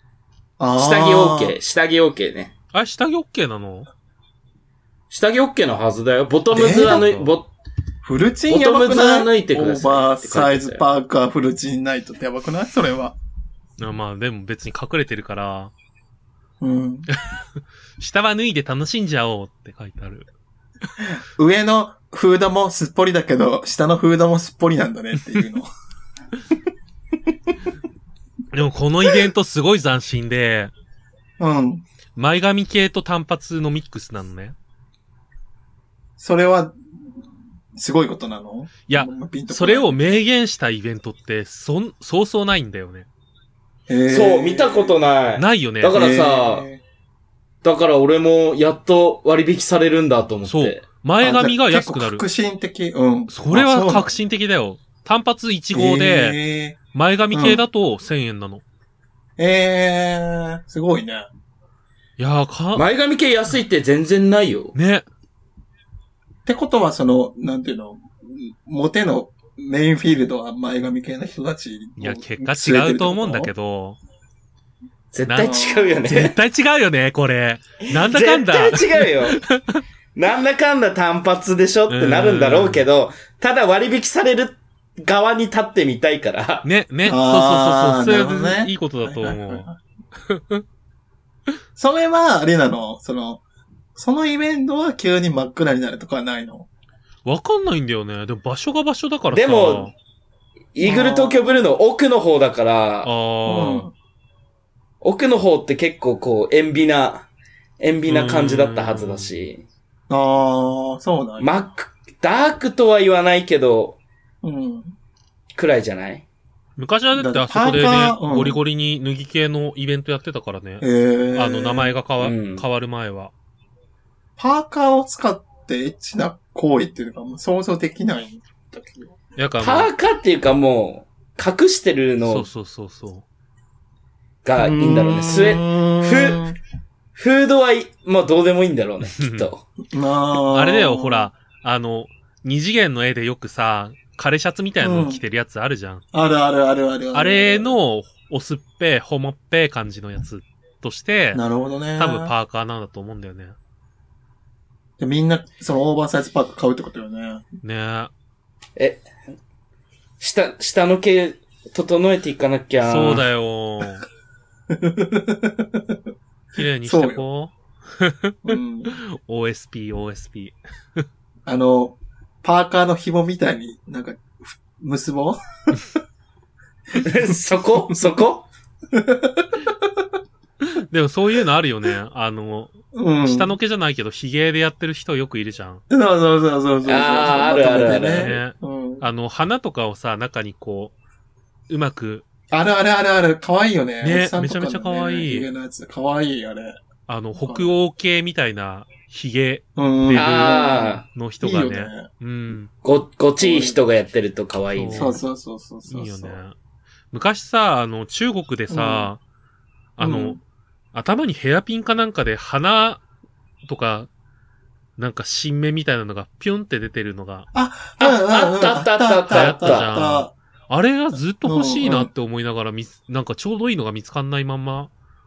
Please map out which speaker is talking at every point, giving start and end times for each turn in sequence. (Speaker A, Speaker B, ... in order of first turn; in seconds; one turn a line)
Speaker A: 0.6-1.6
Speaker B: 0.8-2.5
Speaker C: 2.7-3.9
Speaker B: 5.1-7.5
Speaker A: 6.5-7.1
Speaker C: 6.8-7.3
Speaker A: 8.0-13.2
Speaker B: 8.5-10.8
Speaker C: 13.8-15.7
Speaker A: 16.6-17.1
Speaker C: 18.0-20.3
Speaker A: 21.1-25.7
Speaker C: 28.5-30.7
Speaker A: 31.4-31.8
Speaker C: 32.1-34.5
Speaker A: 36.2-36.8
Speaker A: 37.7-40.2
Speaker C: 38.9-43.1
Speaker A: 43.9-45.0
Speaker B: 44.1-46.6
Speaker C: 45.4-46.0
Speaker A: 45.9-46.8
Speaker B: 47.6-50.8
Speaker C: 50.5-52.2
Speaker A: 51.2-54.1
Speaker C: 53.3-56.4
Speaker A: 55.7-56.8
Speaker C: 56.9-58.6
Speaker A: 57.3-57.6
Speaker A: 59.4-61.3
Speaker C: 62.2-62.9
Speaker B: 62.7-64.7
Speaker C: 64.7-65.0
Speaker A: 66.4-73.5
Speaker C: 72.0-74.0
Speaker B: 75.1-76.4
Speaker C: 75.2-79.8
Speaker A: 75.4-76.1
Speaker B: 77.9-79.4
Speaker B: 80.1-86.7
Speaker C: 81.9-82.8
Speaker C: 86.6-89.7
Speaker A: 87.0-89.8
Speaker C: 90.3-90.6
Speaker A: 91.8-93.4
Speaker A: 93.9-96.7
Speaker C: 97.2-99.9
Speaker B: 99.3-99.9
Speaker B: 100.7-103.1
Speaker A: 100.8-101.5
Speaker C: 103.0-103.9
Speaker A: 103.5-103.9
Speaker B: 105.0-107.3
Speaker B: 107.8-109.6
Speaker C: 108.1-109.3
Speaker A: 110.1-111.5
Speaker B: 111.4-114.0
Speaker A: 114.4-114.9
Speaker B: 115.5-116.2
Speaker C: 116.8-123.3
Speaker A: 117.1-118.6
Speaker A: 120.8-121.9
Speaker B: 122.2-122.6
Speaker A: 124.4-129.1
Speaker C: 129.4-129.9
Speaker B: 129.6-132.5
Speaker C: 132.2-133.2
Speaker B: 134.4-136.4
Speaker A: 134.6-136.6
Speaker B: 137.1-139.6
Speaker C: 139.1-139.5
Speaker A: 139.9-141.3
Speaker C: 140.5-146.0
Speaker A: 144.8-145.2
Speaker A: 146.1-147.7
Speaker C: 147.1-151.4
Speaker A: 151.3-152.3
Speaker C: 152.0-153.6
Speaker A: 155.0-157.4
Speaker C: 157.6-158.1
Speaker B: 158.8-159.1
Speaker B: 160.2-163.2
Speaker C: 162.8-164.0
Speaker A: 164.7-166.0
Speaker C: 166.5-171.0
Speaker A: 166.8-167.2
Speaker A: 168.4-168.9
Speaker A: 171.4-175.8
Speaker B: 176.9-178.5
Speaker A: 178.9-179.7
Speaker C: 180.7-185.8
Speaker A: 182.9-183.6
Speaker A: 185.9-189.1
Speaker B: 186.8-188.3
Speaker C: 188.1-190.9
Speaker C: 191.7-192.2
Speaker A: 192.5-196.8
Speaker C: 194.0-195.5
Speaker C: 197.1-202.7
Speaker A: 197.4-197.7
Speaker A: 199.8-202.1
Speaker B: 200.1-201.0
Speaker B: 202.8-205.1
Speaker A: 203.4-203.8
Speaker C: 204.7-205.2
Speaker A: 204.9-206.4
Speaker C: 205.9-206.6
Speaker C: 207.1-209.2
Speaker A: 208.7-209.1
Speaker C: 210.0-210.4
Speaker A: 210.0-210.4
Speaker C: 210.9-213.0
Speaker C: 213.7-214.1
Speaker C: 215.0-217.5
Speaker A: 217.5-220.3
Speaker B: 218.0-219.9
Speaker C: 219.3-224.9
Speaker A: 221.4-222.1